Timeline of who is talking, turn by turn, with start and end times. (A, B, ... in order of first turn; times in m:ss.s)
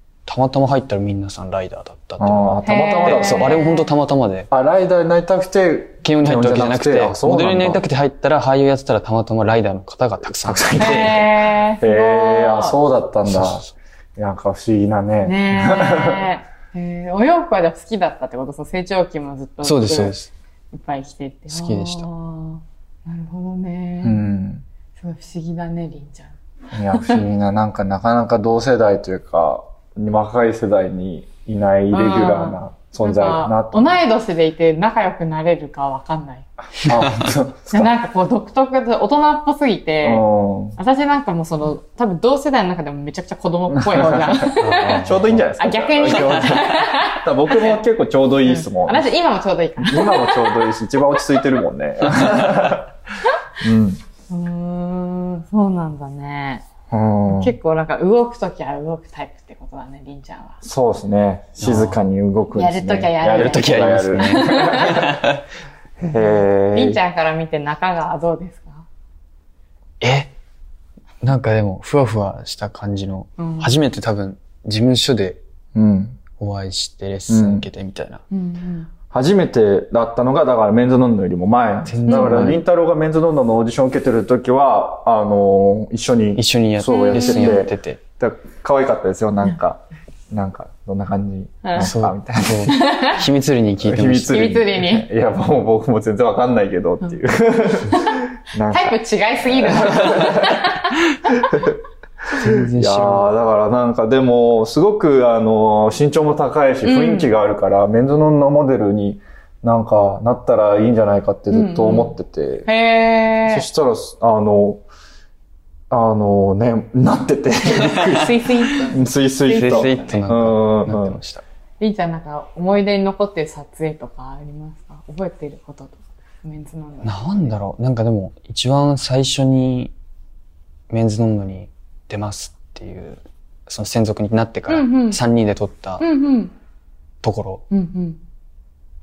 0:00.3-0:04.5 A
0:02.2-0:03.6 B
0:02.6-0:03.8 C
0:04.5-0:07.8 B
0:06.0-0:11.4 A
0:10.4-0:16.2 B
0:10.8-0:12.8 C
0:13.3-0:13.6 A
0:15.2-0:20.1 C
0:19.6-0:20.3 A
0:20.7-0:24.3 C
0:21.5-0:22.1 A
0:24.0-0:24.6 B
0:25.0-0:26.4 C
0:26.7-0:34.0 B
0:26.9-0:27.2 C
0:31.9-0:36.5 C
0:36.8-0:37.9 B
0:37.7-0:45.0 C
0:40.0-0:40.8 B
0:43.7-0:49.1 B
0:44.6-0:45.4 A
0:45.6-0:47.8 C
0:46.1-0:46.4 A
0:48.4-0:50.6 C
0:49.8-0:52.9 B
0:53.6-0:54.0 B
0:54.3-0:56.6 C
0:56.9-0:57.6 B
0:57.3-1:00.6 C
1:00.6-1:05.2 B
1:01.6-1:02.0 A
1:02.5-1:05.0 C
1:03.3-1:05.4 A
1:06.0-1:07.0 B
1:06.2-1:08.8 C
1:10.0-1:10.3 A
1:11.2-1:15.4 A
1:13.4-1:13.7 C
1:15.8-1:16.2 B
1:16.3-1:18.2 A
1:17.3-1:17.7 B
1:18.3-1:18.9 C
1:19.1-1:32.7 B
1:21.9-1:22.6 A
1:22.1-1:22.5 C
1:26.4-1:28.0 A
1:26.8-1:27.6 C
1:31.6-1:31.9 C
1:31.8-1:34.4 A
1:32.7-1:33.2 C
1:33.8-1:40.6 B
1:34.3-1:35.1 C
1:37.9-1:41.3 C
1:41.4-1:41.8 B
1:42.3-1:43.3 A
1:42.7-1:52.7 B
1:46.8-1:47.3 C
1:51.5-1:53.7 C
1:53.5-1:54.8 B
1:55.9-2:01.2 B
1:58.1-2:00.3 C
1:59.5-2:01.4 A
2:01.8-2:07.5 C
2:07.0-2:09.9 A
2:10.9-2:16.1 A
2:14.7-2:15.2 C
2:16.0-2:16.5 C
2:17.2-2:17.6 A
2:17.7-2:18.2 C